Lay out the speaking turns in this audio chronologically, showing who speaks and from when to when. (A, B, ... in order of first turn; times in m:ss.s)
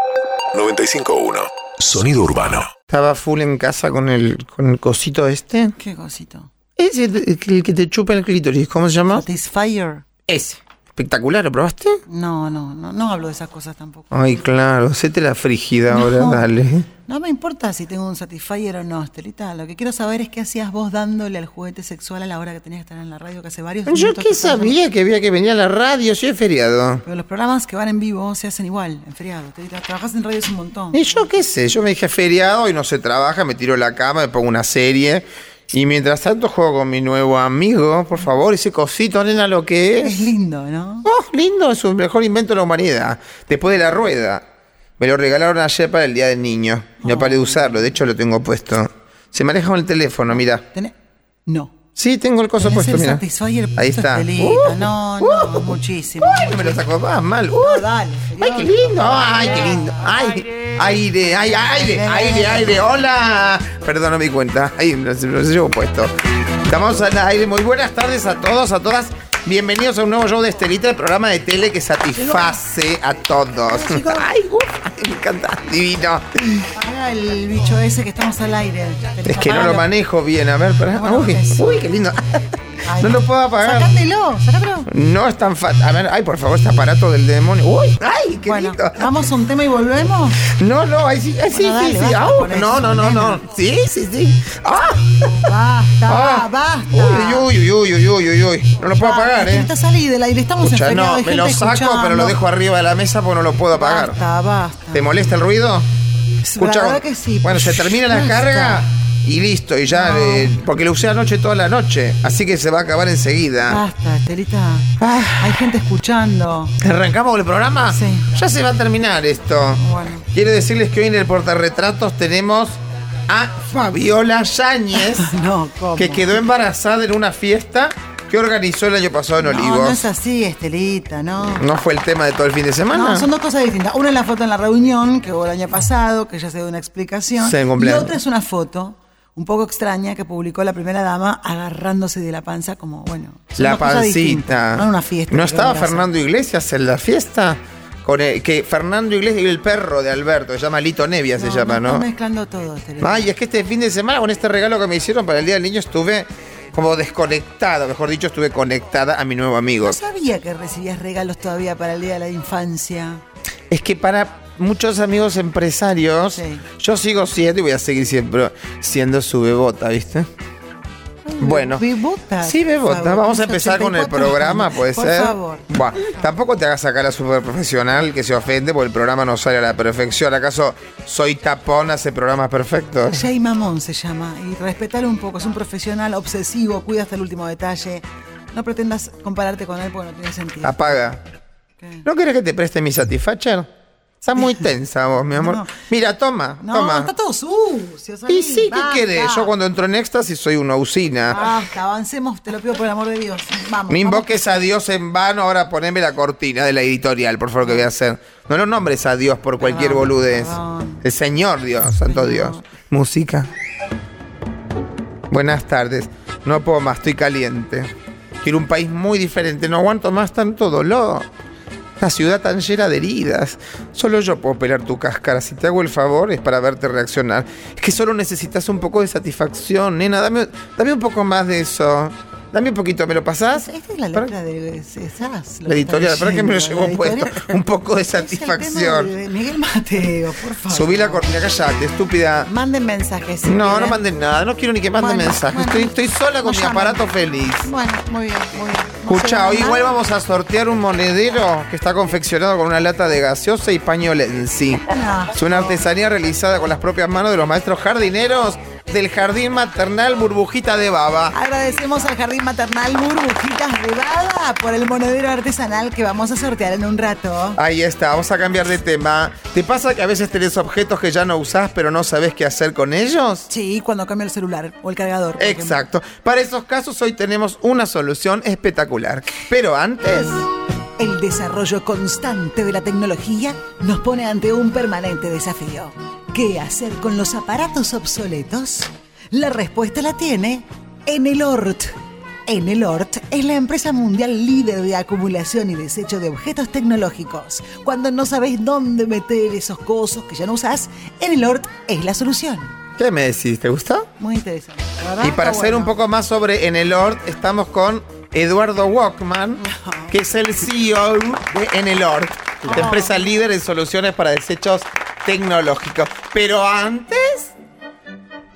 0:00.5-0:02.7 A
0:02.9-0:05.8 B
0:05.8-0:06.5 C
0:06.8-0:09.2 B
0:09.1-0:10.0 C
0:10.3-0:12.0 B
0:12.1-0:14.4 C
0:14.1-0:16.9 B
0:15.9-0:16.5 C
0:17.1-0:24.8 C
0:23.9-0:27.0 B
0:27.0-0:31.3 C
0:30.9-0:40.3 B
0:40.0-0:41.1 C
0:41.0-0:44.4 B
0:45.0-0:50.6 B
0:47.0-0:47.9 C
0:50.3-0:51.0 C
0:51.5-0:51.7 C
0:52.0-0:53.2 B
0:52.6-0:56.8 C
0:53.8-1:06.1 B
0:57.6-1:00.1 C
1:01.5-1:02.8 C
1:06.7-1:16.3 B
1:12.2-1:12.6 C
1:13.7-1:14.2 C
1:16.4-1:19.9 C
1:19.2-1:22.4 B
1:20.9-1:21.7 C
1:22.8-1:24.9 C
1:23.0-1:24.0 B
1:24.9-1:29.1 B
1:28.5-1:30.4 C
1:30.4-1:35.5 B
1:31.5-1:33.4 C
1:35.5-1:37.5 C
1:36.1-1:39.7 B
1:39.0-1:42.4 C
1:40.6-1:44.2 B
1:43.7-1:45.4 C
1:44.9-1:45.9 B
1:46.4-1:48.9 C
1:46.6-1:53.8 B
1:49.9-1:50.5 C
1:53.7-1:56.8 C
1:55.0-1:55.8 B
1:56.8-2:05.3 B
1:57.9-1:58.3 C
1:59.8-2:00.2 C
2:04.9-2:06.4 C
2:06.0-2:10.1 B
2:09.4-2:11.7 C
2:11.6-2:13.3 B
2:12.9-2:26.1 C
2:17.4-2:18.2 B
2:23.6-2:32.1 B
2:31.4-2:33.3 C
2:33.0-2:40.0 B
2:39.8-2:43.2 C
2:43.7-2:50.3 B
2:46.4-2:46.6 C
2:51.3-2:55.7 C
2:51.4-2:51.8 B
2:52.4-3:03.3 B
3:03.1-3:11.0 C
3:10.6-3:11.2 B
3:11.8-3:12.0 C
3:12.0-3:13.7 B
3:14.2-3:17.1 B
3:15.3-3:15.8 C
3:16.6-3:19.5 C
3:18.3-3:21.5 B
3:21.3-3:24.4 C
3:23.9-3:33.5 B
3:27.6-3:27.9 C
3:29.6-3:31.0 C
3:32.0-3:32.6 C
3:35.3-3:37.9 B
3:38.4-3:41.3 B
3:42.0-3:54.3 B
3:53.6-4:01.3 C
3:55.6-3:59.1 B
4:00.7-4:02.5 B
4:02.4-4:04.0 C
4:03.4-4:07.7 B
4:05.0-4:07.0 C
4:07.6-4:10.0 C
4:09.1-4:14.8 B
4:14.8-4:15.8 C
4:15.4-4:21.4 B
4:21.3-4:27.6 C
4:27.6-4:33.5 B
4:33.5-4:35.8 C
4:35.4-4:40.5 B
4:41.0-4:51.9 C
4:52.5-5:02.8 C
5:03.0-5:04.1 B
5:04.2-5:06.0 C
5:05.2-5:17.5 B
5:09.6-5:10.2 C
5:12.7-5:13.2 C